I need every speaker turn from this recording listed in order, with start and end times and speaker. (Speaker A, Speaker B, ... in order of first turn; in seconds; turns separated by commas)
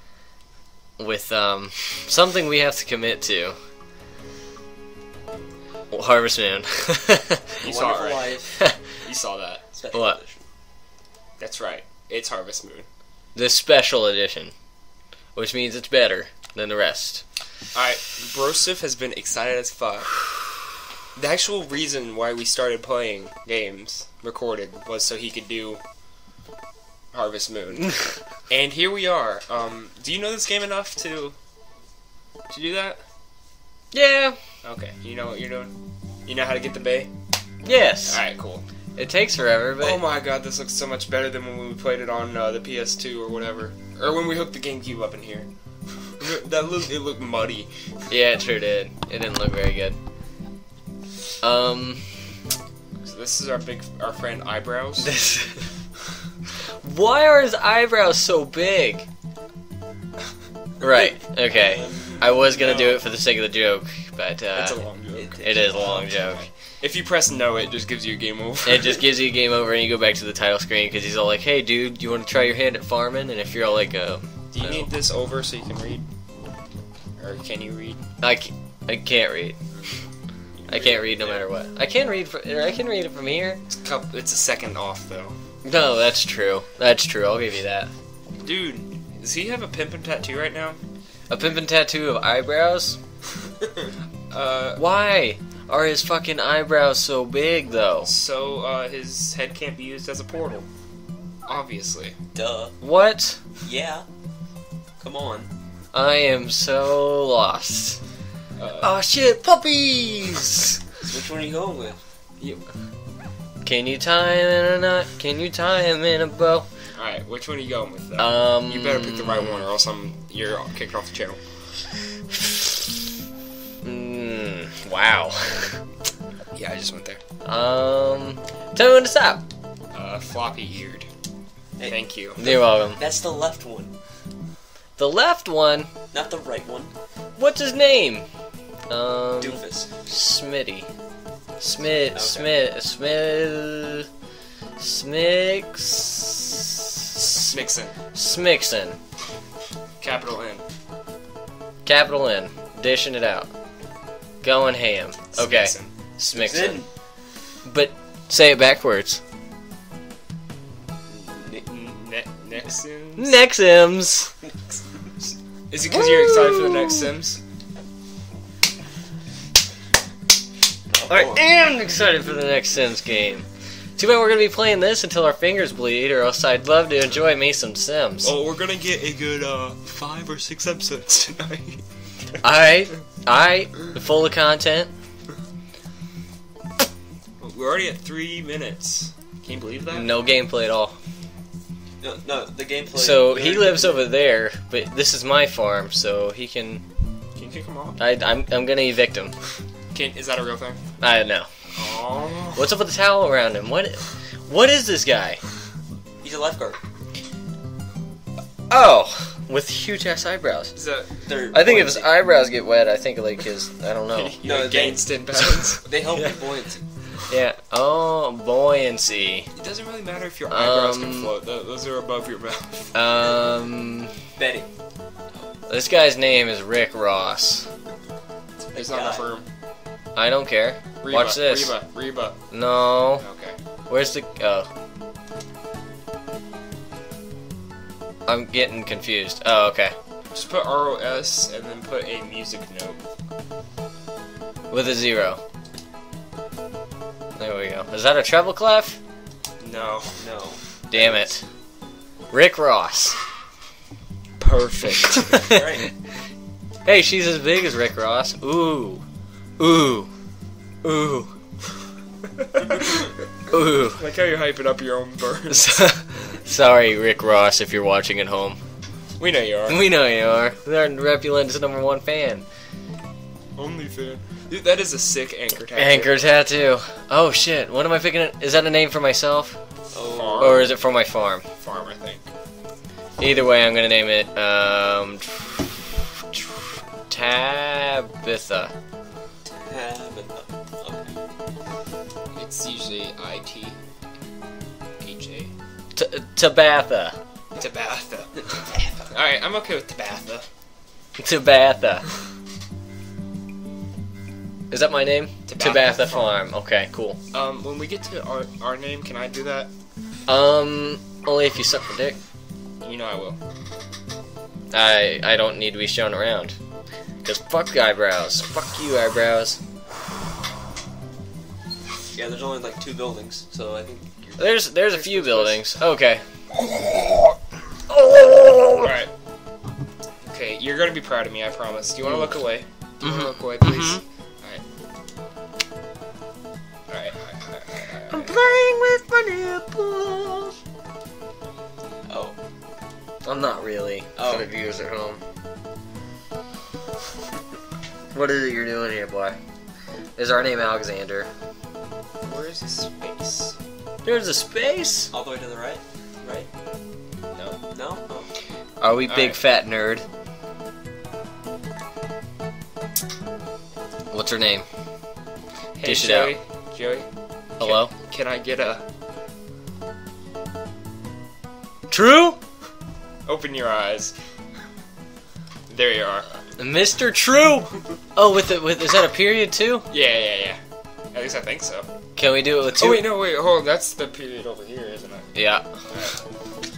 Speaker A: 1.0-3.6, Speaker A: 5.9-7.5, Speaker B: 7.6-8.4, Speaker C: 7.6-8.6, Speaker B: 9.0-9.6, Speaker C: 9.7-10.4, Speaker A: 9.9-10.2, Speaker B: 11.4-12.8, Speaker A: 13.3-14.5, Speaker A: 15.3-17.2, Speaker B: 17.7-20.2, Speaker B: 21.1-25.8, Speaker B: 27.1-31.4, Speaker B: 32.5-33.0, Speaker A: 33.9-34.4, Speaker B: 34.6-35.7, Speaker B: 36.2-37.1, Speaker A: 37.6-38.2, Speaker B: 38.0-38.6, Speaker A: 39.0-40.0, Speaker B: 39.8-45.5, Speaker B: 46.2-47.7, Speaker A: 48.1-50.0, Speaker A: 51.4-52.2, Speaker B: 53.0-55.1, Speaker A: 55.0-55.7, Speaker A: 56.8-59.0, Speaker A: 60.8-64.8, Speaker C: 60.9-63.0, Speaker B: 64.5-65.4, Speaker C: 65.1-66.2, Speaker A: 65.4-66.5, Speaker B: 66.8-69.0, Speaker A: 68.6-74.9, Speaker B: 74.5-76.0, Speaker B: 77.2-78.0, Speaker A: 78.2-79.5, Speaker A: 80.7-83.6, Speaker C: 80.8-81.1, Speaker B: 83.7-85.3, Speaker A: 85.6-87.9, Speaker B: 88.4-90.8, Speaker A: 91.3-93.0, Speaker B: 94.3-94.8, Speaker A: 94.8-98.1, Speaker B: 98.0-100.7, Speaker B: 101.5-102.2, Speaker C: 102.3-102.8, Speaker A: 102.8-103.4, Speaker C: 103.6-104.0, Speaker C: 105.0-105.5, Speaker A: 105.9-108.0, Speaker B: 108.6-109.0, Speaker A: 108.8-110.8, Speaker C: 111.0-112.0, Speaker A: 113.6-116.7, Speaker B: 117.0-121.4, Speaker A: 118.2-119.7, Speaker A: 123.8-125.8, Speaker B: 126.5-127.2, Speaker A: 127.4-129.4, Speaker B: 129.9-131.1, Speaker C: 131.8-133.9, Speaker B: 131.9-132.4, Speaker A: 132.4-133.0, Speaker A: 135.0-135.9, Speaker C: 136.1-136.9, Speaker A: 137.4-138.2, Speaker A: 138.9-140.9, Speaker C: 139.4-139.9, Speaker A: 141.6-144.1, Speaker C: 142.1-142.5, Speaker A: 144.8-147.5, Speaker B: 147.4-147.9, Speaker A: 148.1-149.0, Speaker B: 150.0-150.6, Speaker A: 151.8-153.5, Speaker A: 154.4-156.8, Speaker B: 155.3-155.9, Speaker C: 156.3-156.9, Speaker A: 157.6-159.2, Speaker B: 161.3-163.4, Speaker A: 163.2-164.3, Speaker C: 164.6-165.1, Speaker B: 165.7-167.4, Speaker A: 165.9-167.1, Speaker C: 171.0-171.4, Speaker A: 171.1-173.4, Speaker A: 174.0-178.3, Speaker B: 178.2-181.8, Speaker A: 182.4-184.9, Speaker B: 187.4-190.2, Speaker A: 189.9-190.9, Speaker C: 192.0-193.8, Speaker A: 192.9-196.8, Speaker B: 193.7-194.0, Speaker B: 197.3-198.0, Speaker A: 198.0-199.3, Speaker B: 199.9-200.8, Speaker A: 201.0-201.5, Speaker B: 201.7-202.7, Speaker A: 202.5-205.4, Speaker C: 206.2-206.8, Speaker A: 208.7-210.7, Speaker B: 210.7-211.1, Speaker C: 211.2-212.2, Speaker A: 211.5-214.4, Speaker B: 214.1-215.8, Speaker C: 214.4-215.1, Speaker C: 215.8-216.8, Speaker A: 217.3-219.5, Speaker B: 219.5-222.9, Speaker A: 220.5-221.3, Speaker A: 222.9-224.1, Speaker C: 224.4-224.7, Speaker A: 225.7-227.7, Speaker B: 228.6-229.4, Speaker C: 228.7-229.3, Speaker A: 230.2-231.8, Speaker B: 231.0-232.3, Speaker A: 232.5-233.2, Speaker B: 233.2-233.6, Speaker A: 233.9-234.7, Speaker A: 238.3-239.9, Speaker B: 240.3-243.0, Speaker A: 244.7-245.4, Speaker A: 247.4-249.0, Speaker B: 249.6-250.2, Speaker C: 250.2-251.1, Speaker A: 250.9-251.4, Speaker A: 252.3-253.2, Speaker B: 254.4-255.5, Speaker A: 255.1-255.9, Speaker C: 255.4-255.8, Speaker A: 256.8-259.0, Speaker A: 259.6-260.1, Speaker A: 260.8-261.3, Speaker B: 262.4-263.1, Speaker A: 263.5-264.0, Speaker B: 263.9-265.9, Speaker A: 265.5-268.6, Speaker B: 269.2-269.8, Speaker A: 269.7-272.4, Speaker B: 273.6-276.2, Speaker A: 275.7-279.6, Speaker C: 279.9-280.6, Speaker B: 280.1-280.7, Speaker A: 280.4-281.4, Speaker B: 281.6-282.2, Speaker A: 283.2-288.7, Speaker C: 289.4-291.1, Speaker B: 292.3-293.7, Speaker B: 295.0-295.5, Speaker A: 295.9-297.2, Speaker B: 297.6-300.4, Speaker C: 298.7-299.0, Speaker A: 301.2-302.1, Speaker A: 304.7-307.2, Speaker B: 305.5-306.3, Speaker B: 307.3-309.7, Speaker A: 310.3-312.2, Speaker B: 312.8-313.4, Speaker A: 314.7-316.6, Speaker A: 317.2-319.6, Speaker C: 322.1-324.4, Speaker A: 324.4-326.2, Speaker B: 324.9-325.6, Speaker A: 327.9-329.0, Speaker B: 328.8-329.1, Speaker B: 330.2-334.6, Speaker A: 333.0-334.0, Speaker B: 336.9-338.3, Speaker A: 338.1-340.5, Speaker C: 342.1-342.4, Speaker A: 343.2-345.2, Speaker C: 344.1-344.5, Speaker A: 348.1-349.4, Speaker A: 350.2-351.3, Speaker B: 352.2-353.5, Speaker A: 354.0-355.1, Speaker C: 355.1-356.5, Speaker B: 357.3-357.6, Speaker C: 357.7-358.3, Speaker A: 358.8-360.0, Speaker B: 359.1-359.4, Speaker A: 364.1-364.6, Speaker B: 365.8-367.1, Speaker A: 365.8-366.3, Speaker B: 367.6-368.8, Speaker A: 367.6-367.9, Speaker A: 371.9-372.4, Speaker B: 373.2-374.1, Speaker B: 375.7-376.2, Speaker A: 376.6-379.9, Speaker B: 379.9-380.6, Speaker B: 381.1-381.9, Speaker A: 382.1-383.1, Speaker B: 382.8-385.3, Speaker A: 385.3-385.7, Speaker B: 385.9-386.2